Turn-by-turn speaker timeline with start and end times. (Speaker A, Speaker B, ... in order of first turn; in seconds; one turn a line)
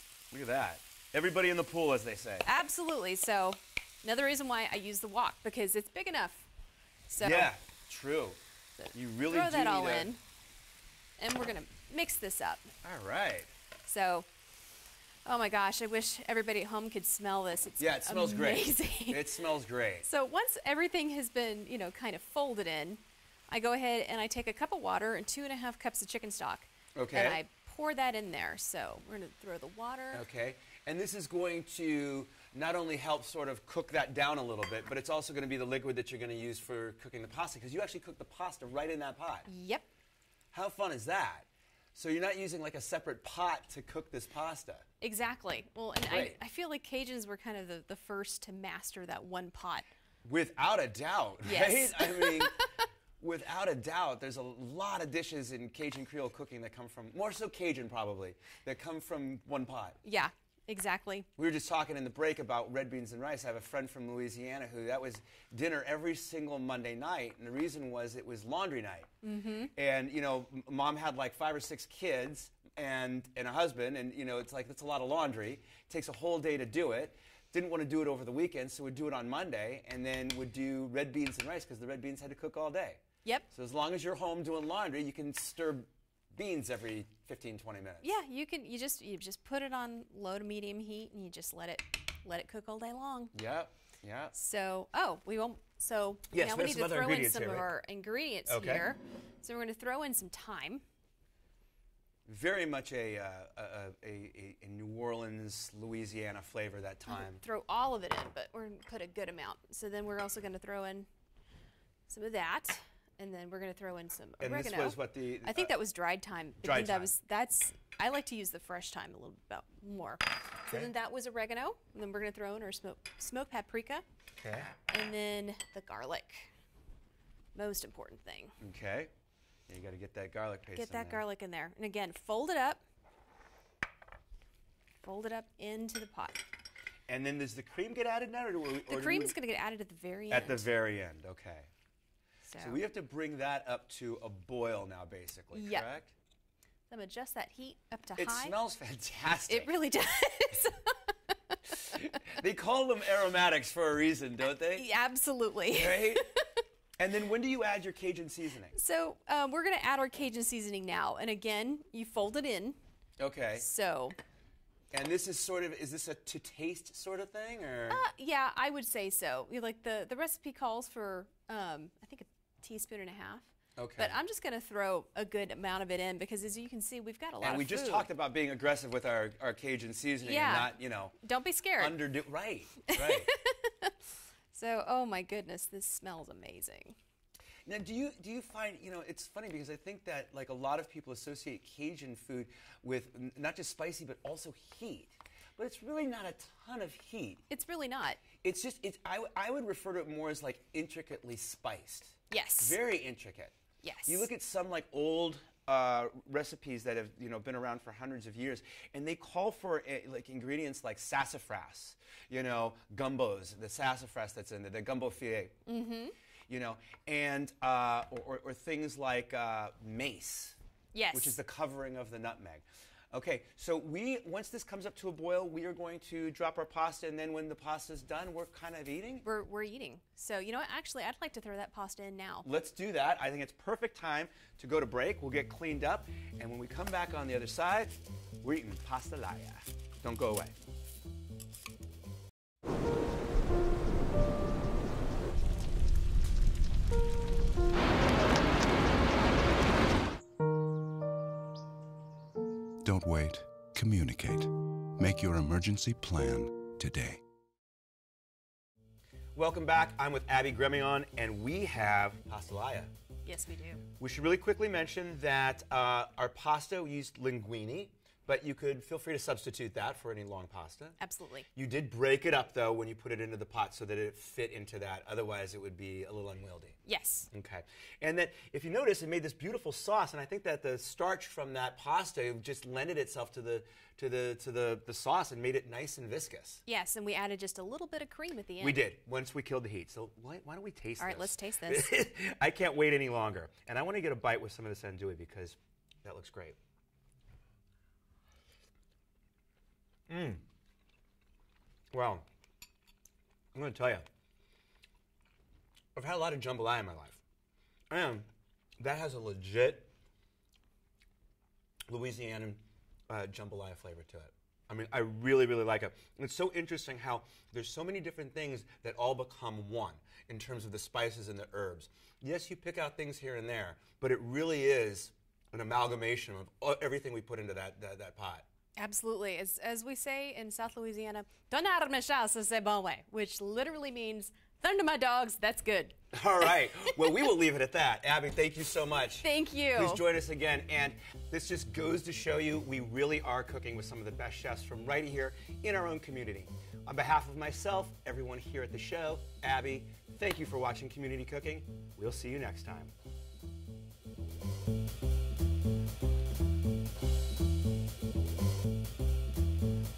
Speaker A: 0.3-2.5
Speaker B: 2.4-6.5
Speaker B: 7.1-7.5
Speaker A: 7.2-8.4
Speaker B: 8.8-10.2
Speaker A: 8.9-10.1
Speaker B: 11.2-12.7
Speaker A: 12.8-13.5
Speaker B: 13.8-14.3
Speaker B: 15.2-19.3
Speaker A: 17.8-20.1
Speaker B: 20.0-30.2
Speaker A: 26.9-27.4
Speaker A: 30.1-39.5
Speaker B: 39.5-39.9
Speaker A: 40.5-44.9
Speaker B: 45.0-49.9
Speaker A: 46.1-46.4
Speaker A: 50.2-52.6
Speaker B: 51.4-52.8
Speaker A: 53.2-60.0
Speaker B: 60.0-61.3
Speaker A: 61.4-69.1
Speaker B: 69.2-69.7
Speaker A: 69.7-88.1
Speaker B: 88.0-93.3
Speaker A: 93.3-94.3
Speaker B: 94.3-100.8
Speaker A: 96.3-97.7
Speaker A: 98.5-98.9
Speaker A: 102.2-107.4
Speaker B: 107.1-111.1
Speaker B: 112.1-124.0
Speaker A: 114.4-115.7
Speaker A: 116.6-117.1
Speaker A: 124.4-124.7
Speaker B: 124.9-126.5
Speaker B: 127.5-128.6
Speaker A: 128.6-129.1
Speaker A: 129.7-131.2
Speaker B: 130.7-132.8
Speaker B: 135.0-136.5
Speaker A: 137.1-139.3
Speaker B: 138.9-140.7
Speaker A: 140.3-141.7
Speaker B: 142.4-142.8
Speaker A: 142.6-146.1
Speaker B: 145.5-145.9
Speaker B: 146.9-148.5
Speaker A: 148.2-149.7
Speaker B: 149.5-151.6
Speaker A: 151.9-154.8
Speaker B: 154.7-156.6
Speaker A: 155.7-156.2
Speaker A: 157.0-158.7
Speaker B: 158.7-162.8
Speaker A: 163.2-163.6
Speaker B: 163.6-164.2
Speaker A: 164.9-168.0
Speaker B: 167.9-178.1
Speaker A: 173.8-174.2
Speaker A: 177.4-181.1
Speaker B: 180.2-182.0
Speaker A: 181.8-183.3
Speaker B: 182.9-183.9
Speaker B: 184.5-186.9
Speaker A: 187.7-197.4
Speaker B: 197.5-198.2
Speaker A: 198.3-203.5
Speaker B: 202.3-202.8
Speaker B: 203.8-204.3
Speaker A: 204.1-215.6
Speaker B: 215.7-216.1
Speaker A: 216.5-220.6
Speaker B: 220.9-221.3
Speaker A: 221.1-229.2
Speaker B: 229.2-232.4
Speaker A: 232.4-240.5
Speaker C: 252.8-257.2
Speaker A: 259.3-262.9
Speaker B: 263.2-263.8
Speaker A: 264.0-271.0
Speaker B: 271.0-271.5
Speaker A: 271.5-276.8
Speaker B: 276.9-277.3
Speaker A: 277.3-286.6
Speaker B: 286.6-288.8
Speaker A: 288.6-296.6
Speaker B: 291.0-291.9
Speaker A: 300.1-300.4
Speaker A: 301.9-302.2
Speaker A: 303.5-304.1
Speaker A: 305.9-307.2
Speaker A: 307.9-308.3
Speaker A: 308.8-309.9
Speaker A: 311.9-328.4
Speaker B: 328.8-337.2
Speaker A: 336.1-352.9
Speaker B: 339.2-340.0